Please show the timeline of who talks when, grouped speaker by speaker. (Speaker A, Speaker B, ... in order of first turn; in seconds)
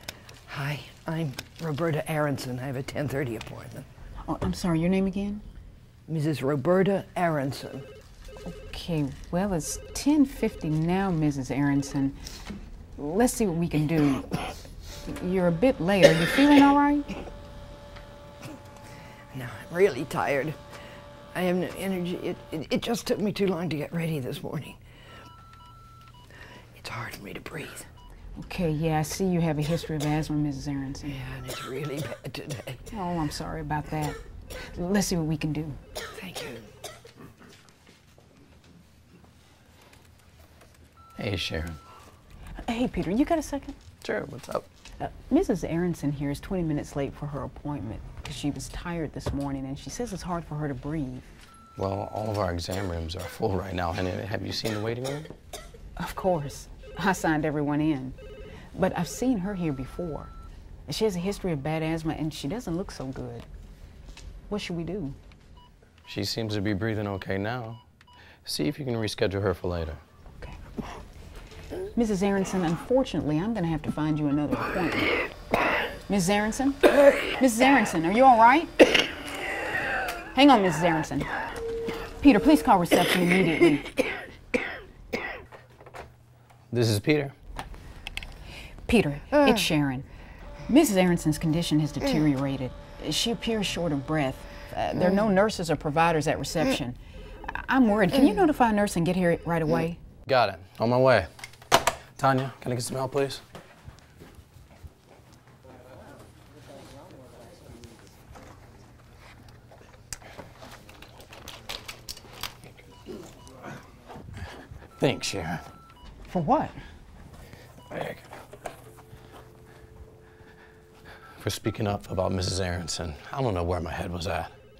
Speaker A: 0.5-3.9, 6.1-7.8, 19.3-20.6, 21.3-24.8, 26.8-27.9, 31.0-32.8, 36.1-36.7
Speaker B: 4.2-5.4, 8.5-12.2, 12.9-14.4, 15.0-17.1, 28.4-31.2, 32.9-35.8, 42.6-43.8, 45.0-51.3, 56.0-58.1, 58.7-60.3, 60.9-63.5, 64.5-65.2, 71.9-75.2, 76.1-78.8, 80.3-81.3, 82.1-84.0, 88.8-90.0, 90.7-100.0, 116.3-116.8
Speaker C: 41.2-41.8, 44.0-44.6, 51.8-55.3, 66.0-67.8, 68.4-70.0, 86.7-87.3, 100.2-101.3, 102.2-103.4, 115.0-115.7, 117.9-118.3, 121.4-124.5